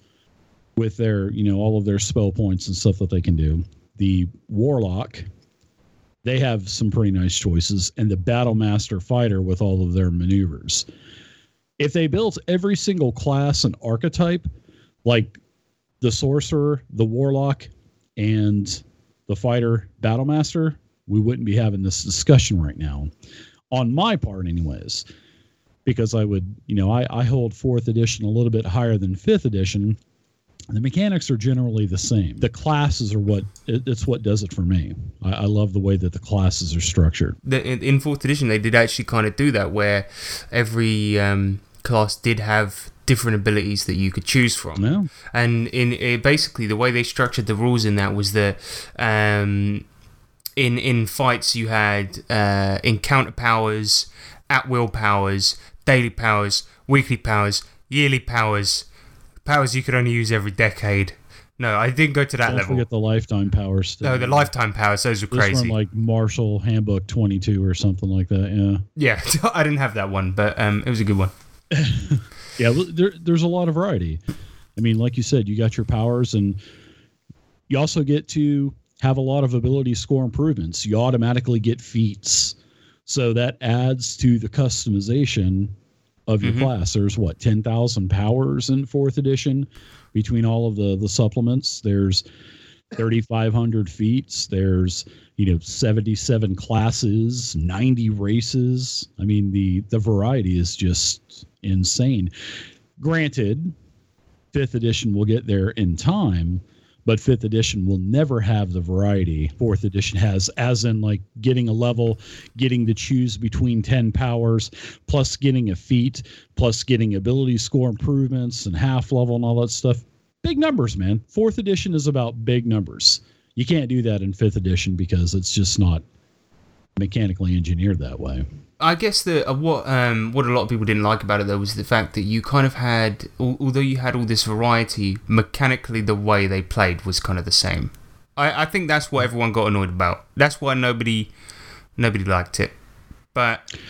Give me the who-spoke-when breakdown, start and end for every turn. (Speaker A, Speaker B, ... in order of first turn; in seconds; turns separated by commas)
Speaker A: 0.8-5.3, Speaker A: 6.2-10.8, Speaker A: 11.8-14.5, Speaker A: 15.0-15.4, Speaker A: 16.0-23.1, Speaker A: 23.7-25.1, Speaker A: 25.8-30.0, Speaker A: 30.7-37.4, Speaker B: 37.4-49.8, Speaker A: 44.7-45.1, Speaker B: 50.5-58.9, Speaker B: 59.4-62.8, Speaker A: 62.5-64.5, Speaker B: 64.0-65.8, Speaker A: 65.3-68.8, Speaker B: 69.0-71.3, Speaker A: 71.7-74.2, Speaker A: 74.8-76.6, Speaker A: 77.7-85.7, Speaker A: 86.3-92.2, Speaker B: 86.4-86.7, Speaker A: 92.9-102.3, Speaker A: 103.0-103.7, Speaker A: 104.5-126.0, Speaker A: 127.0-128.4, Speaker B: 128.8-141.3, Speaker B: 142.0-142.7, Speaker B: 143.3-143.7